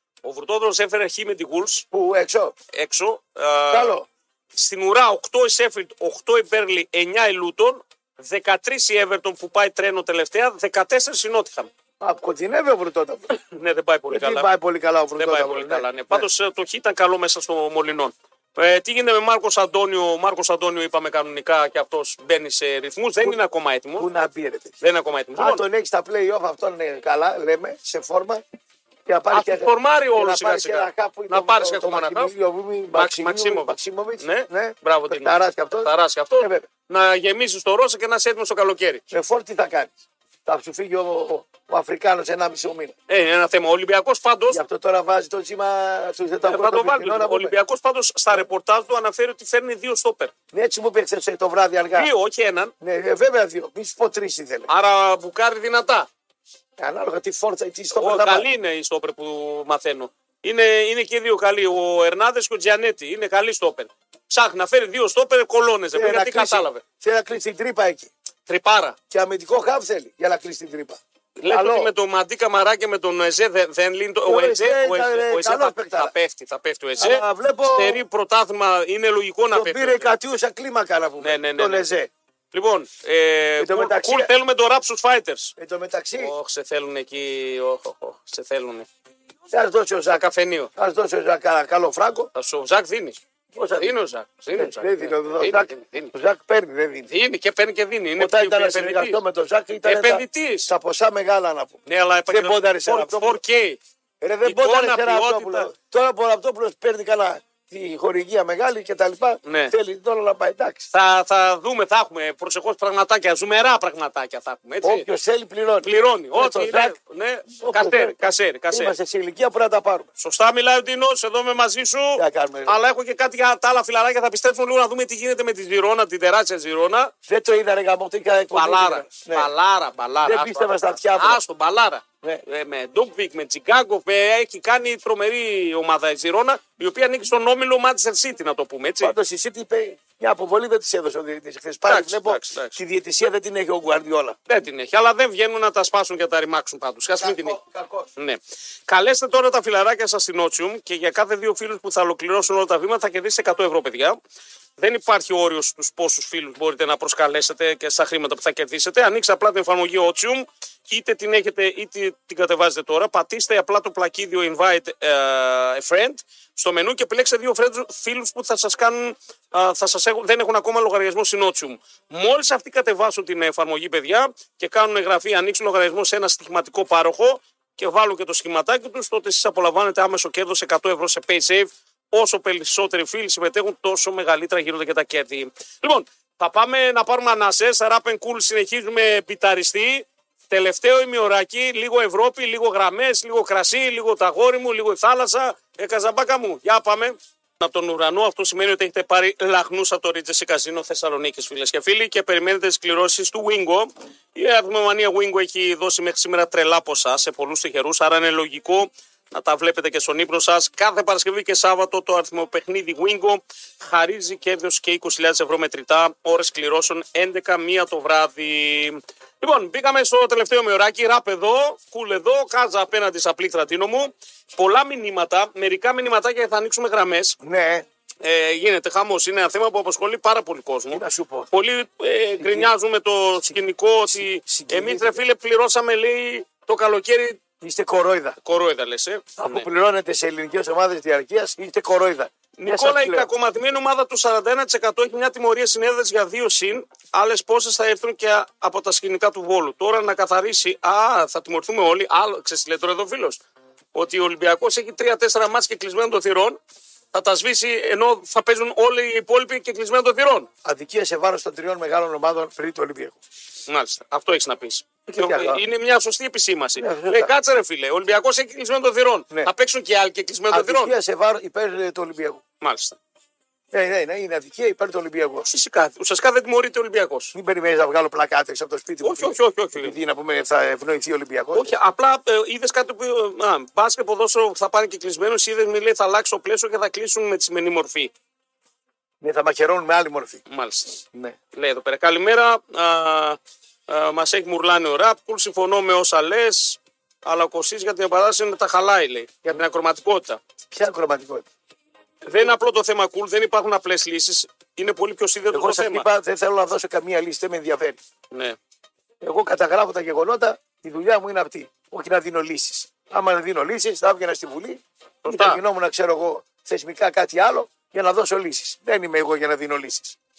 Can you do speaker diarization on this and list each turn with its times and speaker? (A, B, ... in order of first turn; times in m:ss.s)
0:00.2-0:01.8 A
0:01.9-0:02.5 B
0:02.7-0:04.0 A
0:03.7-0:04.1 B
0:04.5-0:11.7 A
0:12.0-0:13.3 B
0:13.3-0:14.5 A
0:14.1-0:16.3 B
0:15.1-0:24.1 A
0:24.0-0:24.7 B
0:24.8-0:25.6 A
0:25.3-0:28.4 B
0:29.1-0:36.7 B
0:29.3-0:32.3 A
0:32.9-0:39.0 A
0:39.1-0:42.9 B
0:43.1-0:44.6 A
0:44.5-0:47.5 B
0:46.4-0:50.3 A
0:50.5-0:52.1 B
0:51.9-0:52.7 A
0:52.8-0:54.7 B
0:54.7-0:56.1 A
0:56.8-0:58.5 B
0:57.9-1:06.8 A
1:05.9-1:08.1 B
1:08.5-1:09.0 A
1:09.1-1:11.9 B
1:11.4-1:20.1 A
1:14.2-1:16.1 B
1:17.0-1:18.0 B
1:19.5-1:22.1 B
1:21.2-1:21.9 A
1:22.5-1:25.5 A
1:23.6-1:24.3 B
1:25.6-1:26.3 B
1:26.2-1:28.9 A
1:29.5-1:30.2 B
1:30.1-1:30.7 A
1:30.7-1:32.3 B
1:32.3-1:33.2 A
1:33.5-1:33.9 B
1:33.8-1:36.1 A
1:34.5-1:37.1 B
1:37.1-1:39.2 A
1:38.2-1:43.4 B
1:39.8-1:40.7 A
1:41.8-1:43.8 A
1:44.2-1:50.9 B
1:44.4-1:45.7 A
1:49.4-1:49.7 A
1:50.9-1:55.0 A
1:54.8-1:57.0 B
1:55.8-1:58.9 A
1:57.6-1:58.2 B
1:58.7-2:00.1 B
2:00.2-2:07.1 A
2:02.2-2:02.8 B
2:07.3-2:09.5 B
2:08.5-2:19.1 A
2:10.2-2:11.4 B
2:19.0-2:24.4 B
2:21.8-2:22.8 A
2:24.5-2:27.6 A
2:27.2-2:28.1 B
2:28.2-2:34.2 A
2:34.8-3:47.4 A
3:47.4-3:47.8 B
3:48.2-3:57.4 A
3:50.9-3:51.5 B
3:52.4-3:52.7 B
3:54.1-3:55.2 B
3:57.6-3:58.4 B
3:58.4-3:59.6 A
3:59.4-4:03.3 B
4:02.6-4:13.4 A
4:13.9-4:16.6 A
4:17.1-4:20.5 A
4:20.6-4:23.2 B
4:23.7-4:30.9 A
4:25.1-4:25.6 B
4:26.8-4:27.3 B
4:30.5-4:32.4 B
4:32.6-4:33.0 A
4:33.7-4:35.5 B
4:35.4-4:37.3 A
4:37.3-4:41.7 B
4:39.0-4:40.0 A
4:41.5-4:48.1 A
4:49.2-4:50.4 B
4:50.5-4:51.0 A
4:51.5-5:00.4 A
5:00.7-5:01.5 B
5:02.2-5:06.0 A
5:05.5-5:08.0 B
5:08.3-5:08.6 A
5:09.2-5:20.2 B
5:15.2-5:15.6 A